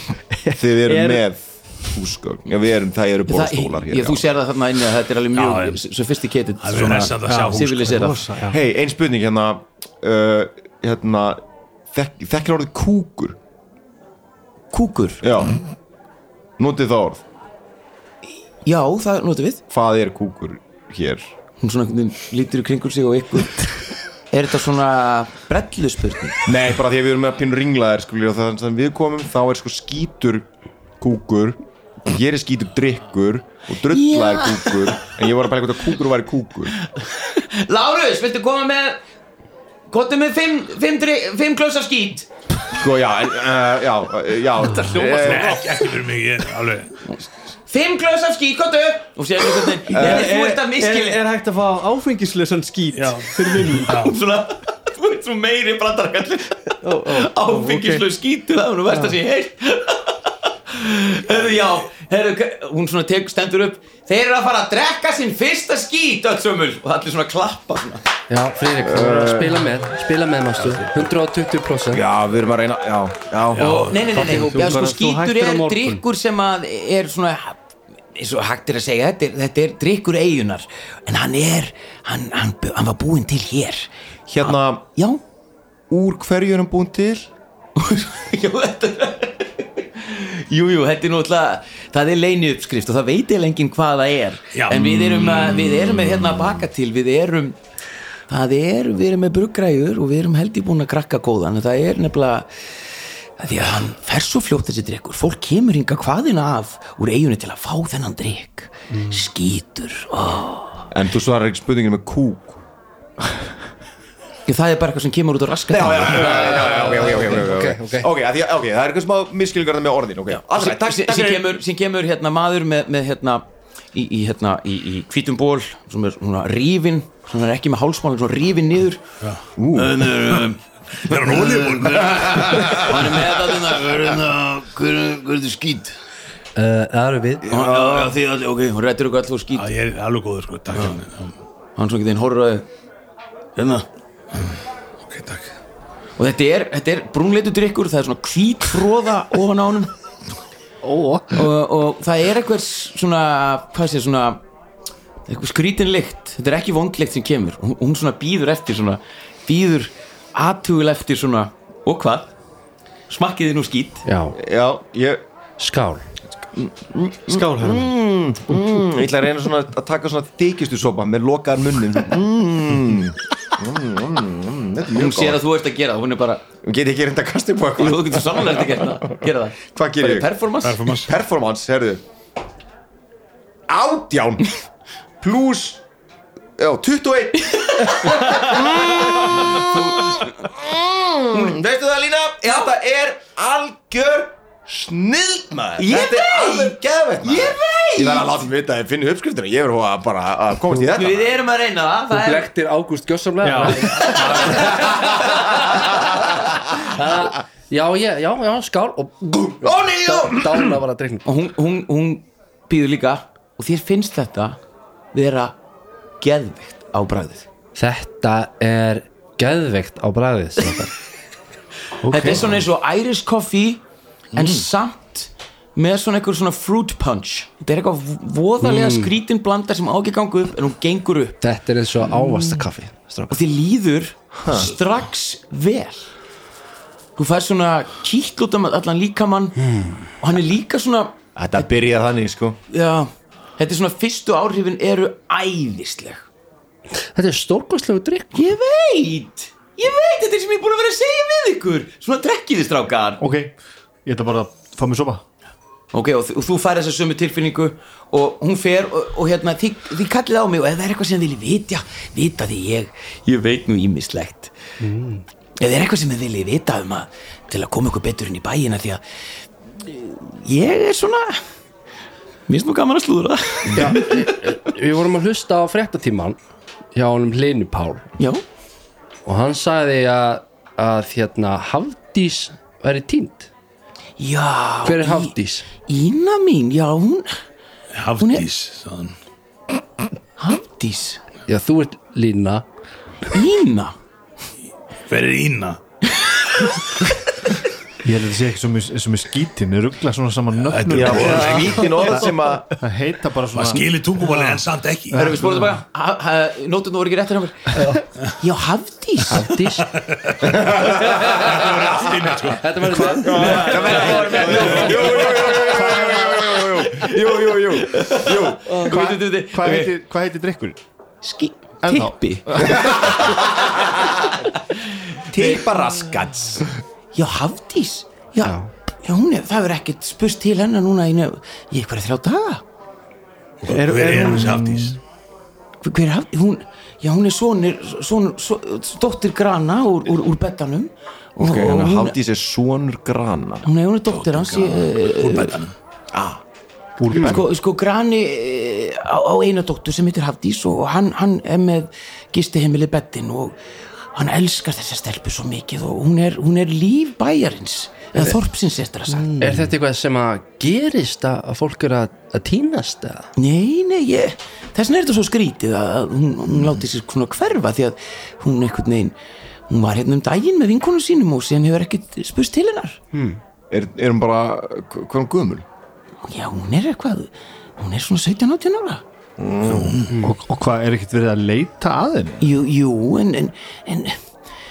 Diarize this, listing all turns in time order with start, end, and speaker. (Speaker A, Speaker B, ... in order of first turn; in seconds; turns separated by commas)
Speaker A: 0.3-1.2, Speaker B: 0.5-4.3, Speaker C: 3.2-8.2, Speaker D: 5.3-5.8, Speaker D: 6.6-8.1, Speaker A: 7.2-8.6, Speaker B: 8.5-13.4, Speaker C: 14.7-15.2, Speaker B: 15.2-15.6, Speaker B: 16.6-17.2, Speaker C: 18.6-19.6, Speaker B: 19.7-21.3, Speaker C: 21.6-23.7, Speaker C: 24.3-26.5, Speaker B: 26.5-30.5, Speaker B: 31.0-36.7, Speaker C: 33.9-35.0, Speaker C: 36.9-39.0, Speaker C: 39.9-42.3, Speaker B: 42.7-45.6, Speaker D: 44.6-47.0, Speaker A: 44.9-45.3, Speaker C: 47.1-51.2, Speaker B: 49.9-50.3, Speaker A: 49.9-54.0, Speaker D: 52.9-54.2, Speaker C: 53.8-68.0, Speaker A: 56.8-58.0, Speaker E: 68.3-72.0, Speaker B: 68.8-69.7, Speaker B: 71.9-73.8, Speaker D: 73.5-74.5, Speaker C: 73.6-77.6, Speaker A: 74.1-76.0, Speaker C: 78.1-83.9, Speaker B: 84.3-84.8, Speaker C: 84.4-85.2, Speaker B: 85.9-87.3, Speaker C: 87.8-97.6, Speaker D: 94.5-96.3, Speaker C: 98.3-102.5, Speaker C: 103.4-110.8, Speaker B: 110.9-112.6, Speaker C: 114.5-117.3, Speaker B: 115.7-121.4, Speaker E: 116.2-118.1, Speaker C: 120.5-129.0, Speaker B: 129.6-130.1, Speaker C: 129.7-131.8, Speaker D: 130.9-133.0, Speaker B: 132.1-132.8, Speaker C: 132.6-135.9, Speaker E: 136.6-137.4, Speaker B: 137.4-138.2, Speaker C: 137.5-139.7, Speaker D: 139.5-141.3, Speaker C: 141.8-142.7, Speaker C: 143.6-143.8, Speaker D: 144.3-145.5, Speaker C: 146.2-149.9, Speaker F: 150.8-151.5, Speaker C: 151.3-154.4, Speaker C: 155.3-162.3, Speaker C: 163.1-164.0, Speaker E: 164.0-164.4, Speaker B: 164.3-165.2, Speaker E: 165.6-166.0, Speaker B: 166.5-175.4, Speaker A: 167.3-167.9, Speaker C: 174.9-176.4, Speaker B: 176.6-180.3, Speaker C: 177.8-180.9, Speaker D: 180.6-181.1, Speaker B: 180.9-182.0, Speaker B: 183.7-184.7, Speaker B: 185.2-185.8, Speaker B: 186.6-201.3, Speaker C: 187.8-190.5, Speaker C: 195.8-198.3, Speaker C: 200.9-202.5, Speaker E: 202.1-204.7, Speaker A: 203.4-203.9, Speaker C: 203.8-205.9, Speaker B: 204.1-206.4, Speaker E: 206.8-211.2, Speaker B: 209.6-210.8, Speaker C: 211.2-214.6, Speaker C: 215.1-215.6, Speaker C: 216.2-217.5, Speaker E: 217.7-220.9, Speaker F: 222.0-222.4, Speaker C: 222.1-223.8, Speaker C: 224.3-231.4, Speaker E: 228.6-229.1, Speaker E: 231.4-233.3, Speaker C: 233.3-236.1, Speaker B: 234.4-234.7, Speaker C: 237.2-239.6, Speaker E: 239.6-240.1, Speaker C: 240.2-241.7, Speaker B: 241.3-242.6, Speaker C: 242.7-246.3, Speaker E: 247.0-248.4, Speaker C: 248.3-253.2, Speaker F: 253.2-255.2, Speaker C: 255.9-264.5, Speaker A: 264.8-265.2, Speaker C: 265.6-269.0, Speaker C: 269.8-271.4, Speaker C: 272.5-274.2, Speaker E: 273.7-276.4, Speaker E: 276.9-278.1, Speaker E: 279.2-283.5, Speaker C: 284.2-287.4, Speaker E: 284.8-285.7, Speaker D: 287.9-289.1, Speaker C: 288.2-288.4, Speaker C: 290.4-291.2, Speaker E: 291.5-292.6, Speaker C: 293.3-293.9, Speaker D: 295.1-295.8, Speaker F: 298.0-305.8, Speaker D: 300.5-301.9, Speaker B: 301.0-302.7, Speaker A: 301.1-302.5, Speaker D: 303.5-305.4, Speaker C: 305.1-309.5, Speaker E: 309.3-309.9, Speaker D: 310.0-313.8, Speaker B: 310.4-311.9, Speaker E: 312.6-314.4, Speaker B: 313.2-318.9, Speaker C: 313.2-319.9, Speaker D: 314.5-315.2, Speaker F: 315.5-316.4, Speaker F: 318.8-320.8, Speaker C: 321.2-323.6, Speaker F: 321.8-322.8, Speaker B: 322.6-324.1, Speaker B: 325.2-326.7, Speaker C: 325.3-325.7, Speaker C: 327.1-332.6, Speaker E: 328.4-328.7, Speaker D: 333.6-335.0, Speaker A: 333.7-334.9, Speaker C: 335.8-342.1, Speaker B: 341.4-343.7, Speaker C: 343.6-345.6, Speaker D: 344.1-345.7, Speaker B: 346.1-346.4, Speaker A: 347.0-347.4, Speaker B: 347.1-347.4, Speaker C: 347.1-353.6, Speaker C: 354.1-359.3, Speaker A: 359.1-359.7, Speaker E: 359.4-363.3, Speaker C: 363.4-369.1, Speaker C: 369.7-373.0, Speaker E: 373.1-373.4, Speaker B: 373.7-375.6, Speaker C: 376.2-379.0, Speaker B: 379.4-380.1, Speaker D: 379.7-380.1, Speaker F: 380.2-382.5, Speaker C: 382.4-384.2